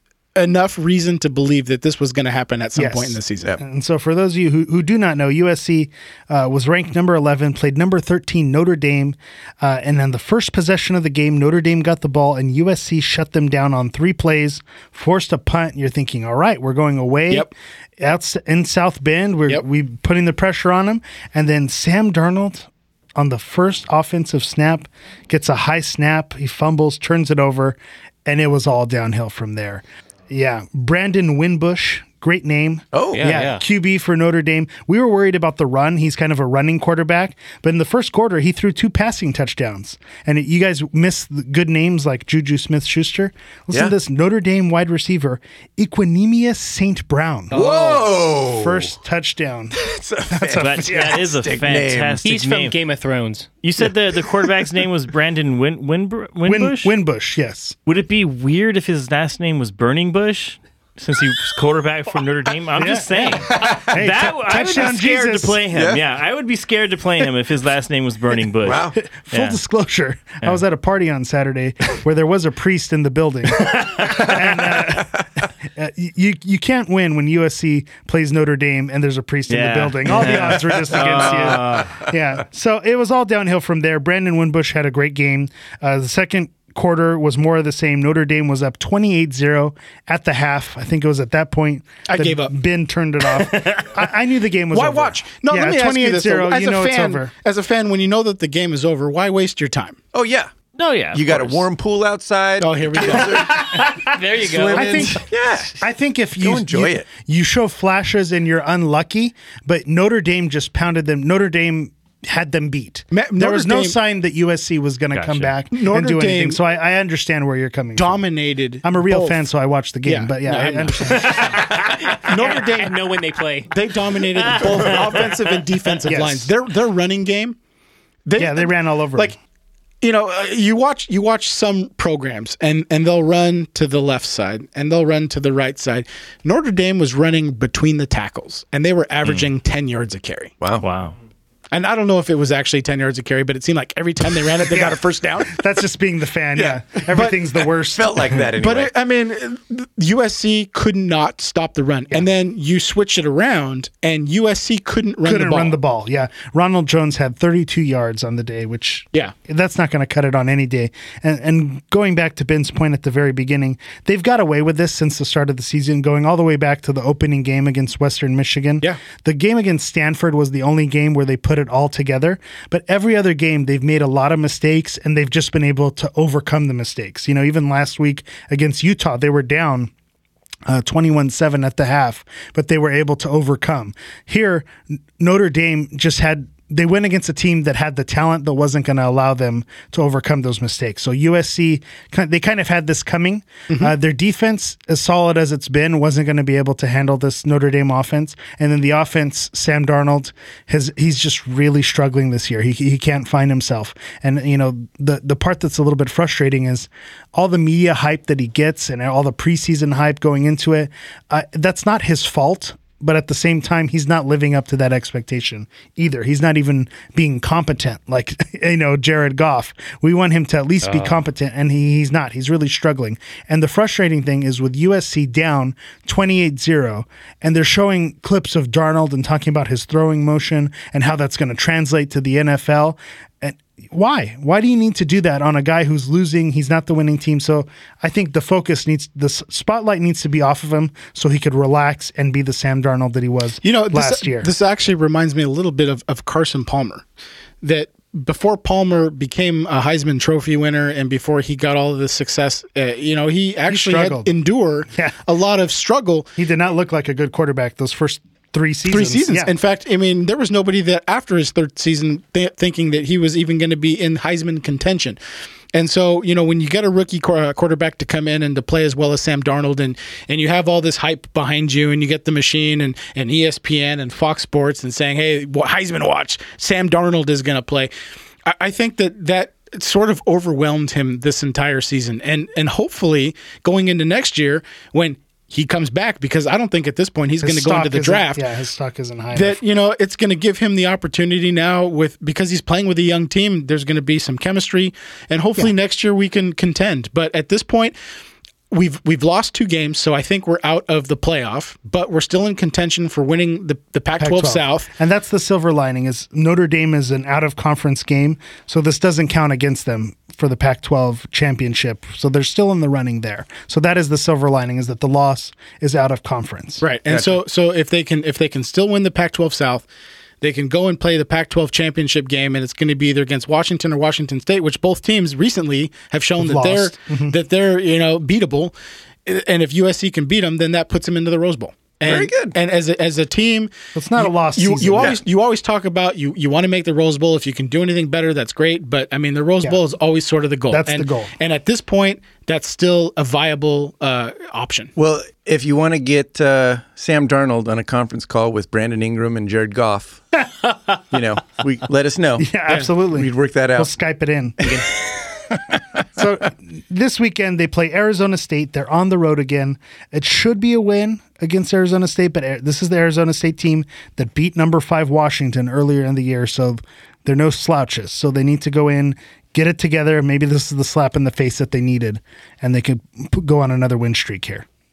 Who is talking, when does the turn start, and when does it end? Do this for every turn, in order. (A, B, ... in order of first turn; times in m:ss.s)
0:00.4-0:03.6 A
0:02.8-0:47.6 B
0:32.9-0:33.5 C
0:33.1-0:33.6 D
0:47.5-0:48.1 D
0:47.5-0:48.9 C
0:48.4-0:51.2 B
0:49.7-0:52.2 C
0:50.6-0:52.8 E
0:52.2-0:53.5 D
0:53.6-0:56.9 E
0:56.4-0:57.8 B
0:57.8-1:09.6 E
1:02.8-1:05.6 B
1:05.7-1:06.0 C
1:08.6-1:09.0 C
1:09.0-1:37.3 B
1:13.6-1:14.3 E
1:19.5-1:22.0 E
1:32.0-1:32.5 A
1:34.7-1:40.0 A
1:40.1-1:40.5 C
1:40.8-1:41.6 E
1:41.1-1:45.8 C
1:42.6-1:43.6 A
1:43.6-1:45.2 D
1:44.6-1:58.2 B
1:46.4-1:47.1 C
1:53.1-1:54.0 A
1:55.1-1:55.5 E
1:55.7-1:56.6 A
1:58.0-1:59.4 A
1:58.8-2:01.7 B
2:00.0-2:03.0 A
2:01.3-2:03.7 D
2:03.7-2:07.6 A
2:04.4-2:05.0 D
2:06.0-2:06.5 B
2:08.2-2:09.4 A
2:08.4-2:09.3 B
2:10.0-2:20.5 A
2:20.8-2:21.1 E
2:21.7-2:25.6 A
2:24.6-2:28.2 B
2:26.6-2:27.0 C
2:27.1-2:27.4 A
2:27.9-2:28.9 C
2:28.6-2:35.7 A
2:35.2-2:59.9 B
3:00.7-4:04.5 B
3:40.8-3:41.2 D
4:03.6-4:07.0 A
4:07.6-4:16.3 A
4:13.7-4:14.3 B
4:16.4-4:19.5 B
4:18.9-4:25.2 A
4:25.7-4:37.9 A
4:38.4-4:48.4 A
4:47.4-4:49.6 B
4:49.3-4:57.9 A
4:58.7-5:04.9 A
5:04.2-5:16.8 B
5:16.8-5:19.8 A
5:17.1-5:17.4 C
5:20.4-5:28.7 A
5:26.4-5:27.4 B
5:29.2-5:44.9 A
5:32.0-5:32.6 C
5:33.9-5:35.2 B
5:40.7-5:41.3 B
5:45.0-5:50.4 C
5:51.1-5:52.5 C
5:52.4-5:54.7 B
5:53.1-5:53.9 C
5:56.1-6:14.6 B